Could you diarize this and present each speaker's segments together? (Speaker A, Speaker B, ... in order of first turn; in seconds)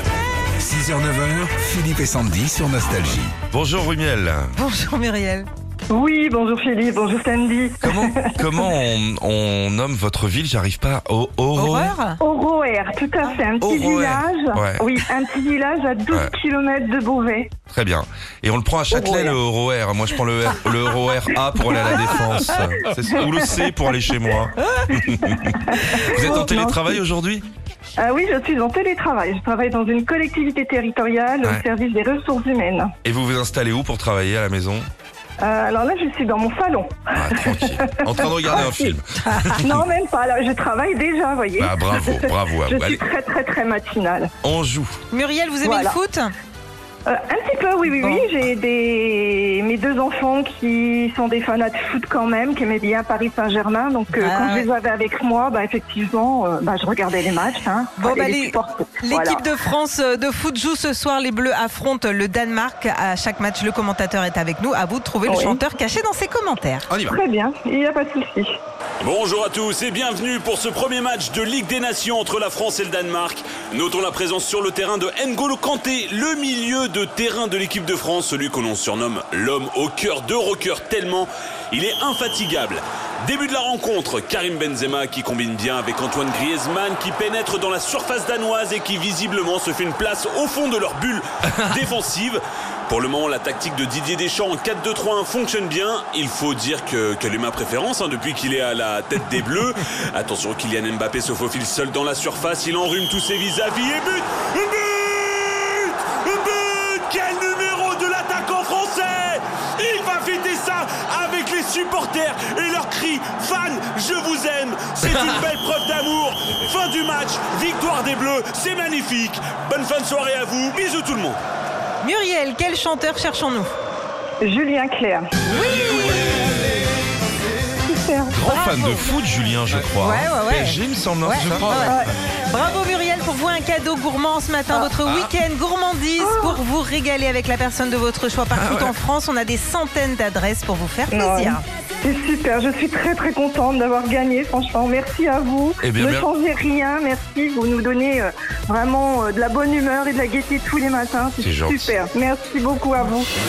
Speaker A: 0.6-3.4
Speaker B: 3.5-4.5, 7.8-11.9, 13.6-14.9, 17.7-27.5, 33.0-34.9, 37.1-39.8, 41.6-43.0, 44.4-45.0, 66.9-67.2, 128.3-131.9, 138.5-138.9, 145.8-146.3, 151.4-152.0
Speaker C: 4.5-5.5, 11.6-12.2, 45.1-46.3, 48.0-48.3, 54.2-54.7, 58.0-66.9, 122.0-123.7, 125.5-126.6, 128.4-129.1, 129.9-141.6
Speaker D: 5.9-8.3, 12.2-17.5, 18.9-19.4, 21.7-22.1, 23.1-23.6, 25.2-27.0, 28.0-32.9, 35.4-38.9, 39.5-44.3, 45.6-46.0, 47.1-59.4, 65.3-65.6, 67.1-68.5, 124.4-125.3, 127.9-128.4, 131.8-132.1, 136.2-136.6, 141.1-153.3
Speaker E: 69.0-121.4